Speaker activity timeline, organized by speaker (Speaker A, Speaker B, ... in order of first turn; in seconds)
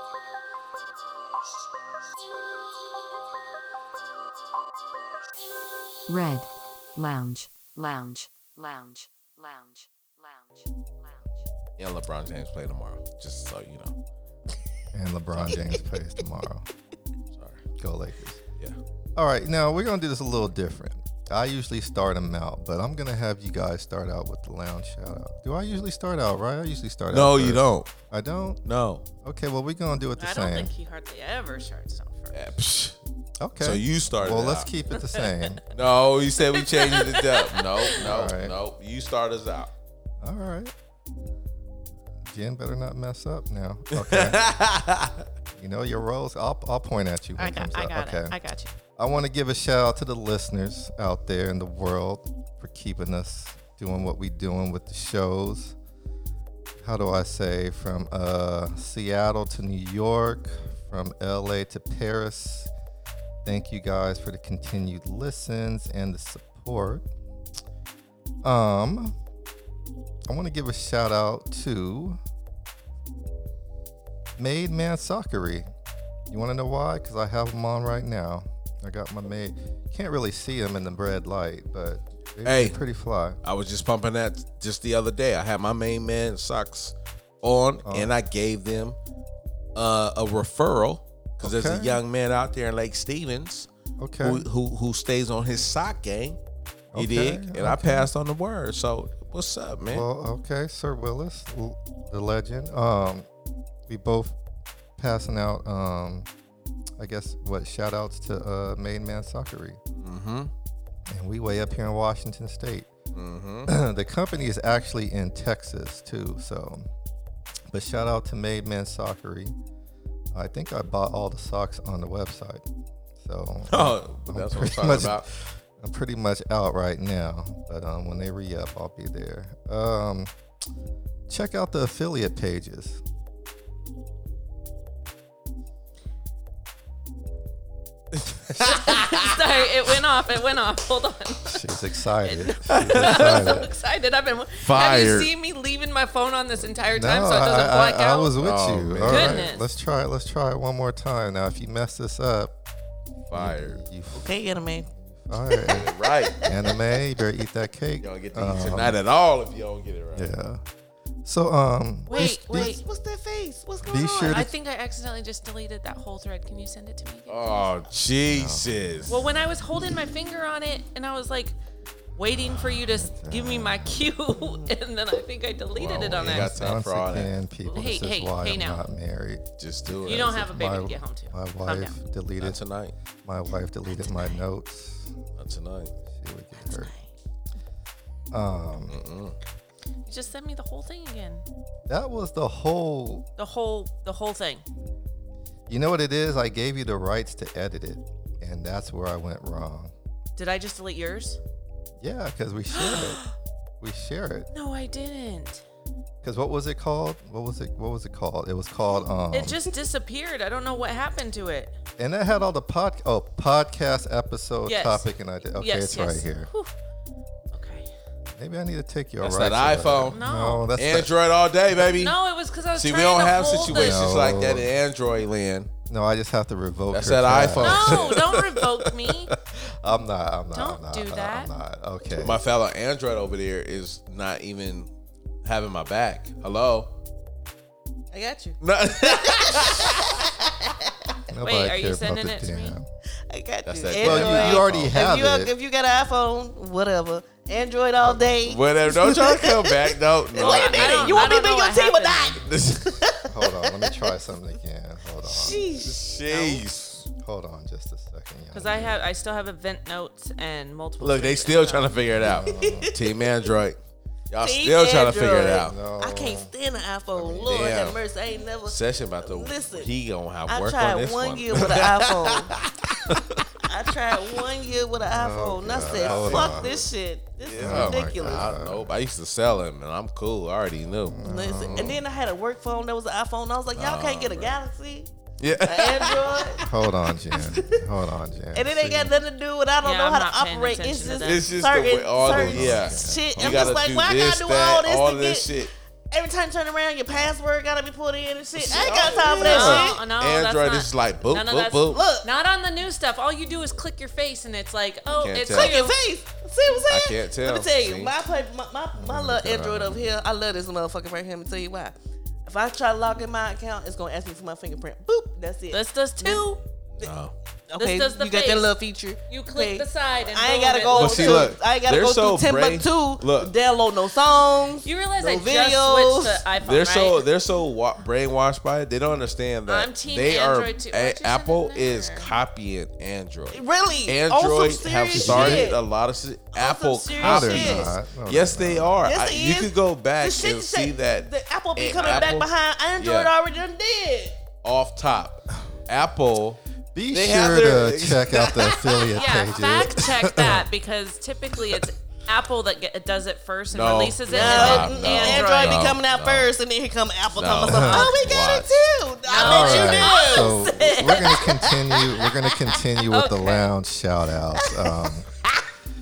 Speaker A: 6.1-11.3
Speaker B: 11.8-13.9, 17.3-17.6, 27.1-27.9, 28.6-29.1, 32.3-33.0, 33.6-34.7, 35.7-39.7, 43.9-45.2, 82.5-82.8, 83.4-89.0, 89.8-93.7, 94.2-96.4, 97.0-100.1, 110.0-110.5, 113.1-113.7, 123.7-125.3, 138.1-139.2, 142.7-143.6, 144.6-145.3, 148.4-149.5, 153.3-153.8, 155.7-156.4, 158.0-160.3, 167.3-169.2, 175.9-177.4, 179.6-180.4, 182.4-182.9, 185.4-185.9, 188.9-189.4, 219.2-220.2, 220.8-222.2, 222.8-225.7, 226.9-228.2, 232.1-234.9, 235.4-236.9, 238.6-240.3, 243.7-244.9, 248.5-251.3, 252.4-253.1, 255.8-257.1, 261.0-263.8, 264.3-265.8, 267.4-268.0, 268.6-273.5, 275.8-282.0, 283.7-284.6, 285.4-286.7, 291.2-295.7, 298.6-302.0, 305.1-305.8, 306.9-308.1, 309.1-310.0, 317.0-317.3, 320.9-323.5, 326.6-343.3, 344.6-346.6, 347.1-348.6, 353.7-356.5, 357.4-358.8
Speaker C: 14.9-16.7, 17.8-18.4, 19.2-28.6, 29.2-30.7, 33.4-35.6, 37.9-38.6, 40.2-40.7, 42.3-44.5, 45.5-48.3, 49.0-55.8, 56.8-62.7, 63.5-67.1, 68.4-69.2, 70.3-72.2, 74.4-75.7, 76.3-83.4, 87.8-88.1, 91.4-92.0, 94.0-94.5, 96.9-98.1, 99.9-103.3, 103.9-104.4, 105.0-106.3, 107.0-109.8, 111.1-112.9, 113.7-116.9, 117.7-119.5, 120.3-122.7, 123.2-130.3, 131.3-133.0, 141.4-143.7, 146.8-152.5, 153.3-159.0, 160.1-160.6, 161.2-162.8, 163.8-164.5, 168.3-169.3, 172.3-174.1, 175.8-182.6, 183.2-185.1, 186.1-186.9, 188.3-189.0, 191.9-193.3, 195.7-199.9, 202.0-203.2, 203.8-204.5, 206.2-209.7, 212.0-216.5, 218.3-221.1, 223.7-224.8, 225.9-232.4, 241.3-242.9, 244.0-245.5, 248.0-248.3, 253.3-255.7, 257.2-259.0, 262.1-262.9, 265.6-266.5, 267.1-267.6, 275.0-276.8, 277.6-278.9, 281.1-282.0, 286.6-289.1, 292.2-293.8, 309.0-309.3, 335.1-335.7, 337.2-339.1, 346.9-350.7, 357.7-358.1, 359.4-365.3
Speaker D: 30.2-32.5, 34.9-35.5, 36.5-37.9, 47.4-48.7, 138.6-141.6, 142.2-148.3, 149.1-149.7, 162.1-162.8, 164.2-167.5, 169.1-171.6, 172.2-176.7, 177.7-178.9, 180.1-182.0, 190.1-191.5, 193.4-194.6, 200.4-201.4, 202.7-203.3, 204.5-205.6, 209.3-211.8, 214.7-216.7, 217.5-217.9, 220.1-220.7, 221.8-224.2, 227.6-229.3, 230.5-231.5, 241.4-242.8, 250.4-252.4, 256.3-256.6, 258.5-261.9, 289.8-291.5, 299.4-305.9, 315.7-316.5, 317.8-318.7, 319.3-321.5, 324.8-327.3, 329.7-332.3, 349.1-355.9, 359.3-361.4, 363.1-363.7
Speaker E: 154.1-154.9, 155.4-157.0, 162.1-164.5, 174.4-174.7, 184.0-184.4, 186.6-187.0, 238.1-241.1, 243.3-254.1, 255.2-256.1, 262.4-263.0, 264.4-269.9, 270.5-272.6, 273.6-278.5, 281.2-285.1, 285.6-286.6, 287.3-287.8, 288.5-295.6, 296.1-300.0, 301.9-302.3, 305.5-317.1, 317.7-326.4, 333.5-335.8, 336.5-337.9, 339.0-344.4, 348.6-349.2, 354.3-362.8, 364.6-365.1